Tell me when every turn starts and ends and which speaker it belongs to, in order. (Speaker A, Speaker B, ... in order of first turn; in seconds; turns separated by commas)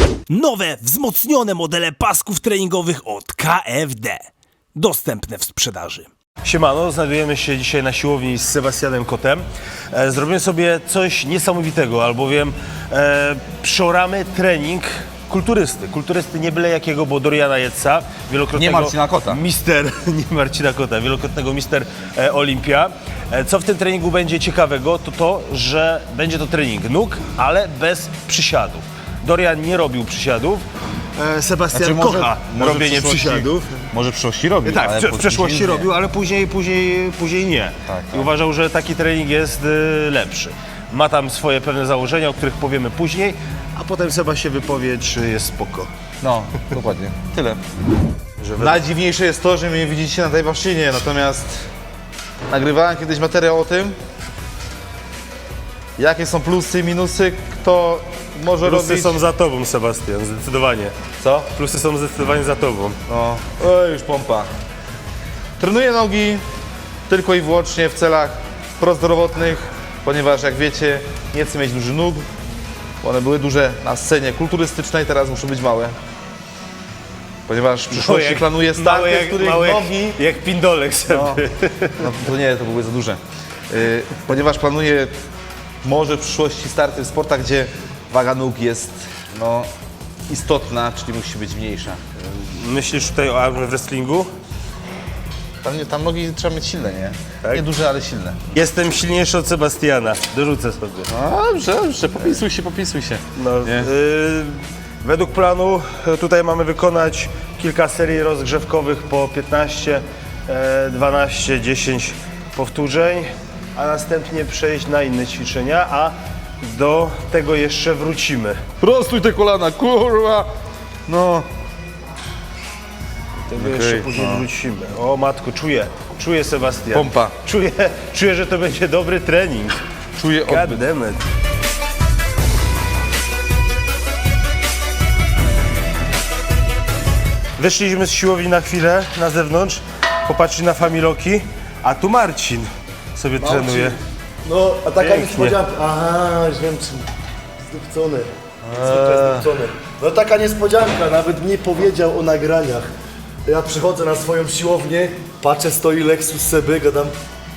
Speaker A: 0.3-30.6, Speaker B: 18.5-19.4, Speaker A: 31.1-33.8, Speaker B: 31.7-35.9, Speaker A: 34.6-45.9, Speaker B: 37.9-38.3, Speaker B: 46.2-47.6, Speaker A: 48.4-48.8, Speaker B: 48.6-51.7, Speaker B: 52.5-54.0, Speaker B: 56.0-59.2, Speaker A: 58.6-60.9, Speaker B: 61.2-61.5, Speaker A: 61.5-63.0, Speaker B: 63.1-64.5, Speaker B: 65.6-66.4, Speaker B: 67.1-72.3, Speaker B: 73.0-76.0, Speaker B: 77.5-80.2, Speaker A: 77.9-82.1, Speaker B: 81.1-81.4, Speaker B: 82.0-85.1, Speaker B: 85.8-89.7, Speaker B: 90.3-92.0, Speaker A: 92.2-94.3, Speaker B: 95.6-98.4, Speaker A: 98.5-101.1, Speaker B: 101.1-103.9, Speaker A: 103.3-118.6, Speaker B: 118.8-120.5, Speaker B: 121.1-121.5, Speaker A: 123.4-129.8, Speaker B: 123.5-124.4, Speaker B: 126.9-127.3, Speaker B: 130.2-130.8, Speaker A: 130.4-131.2, Speaker A: 137.6-144.0, Speaker C: 143.4-147.1, Speaker A: 145.0-145.6, Speaker C: 147.6-152.9, Speaker B: 148.6-149.5, Speaker C: 153.4-157.1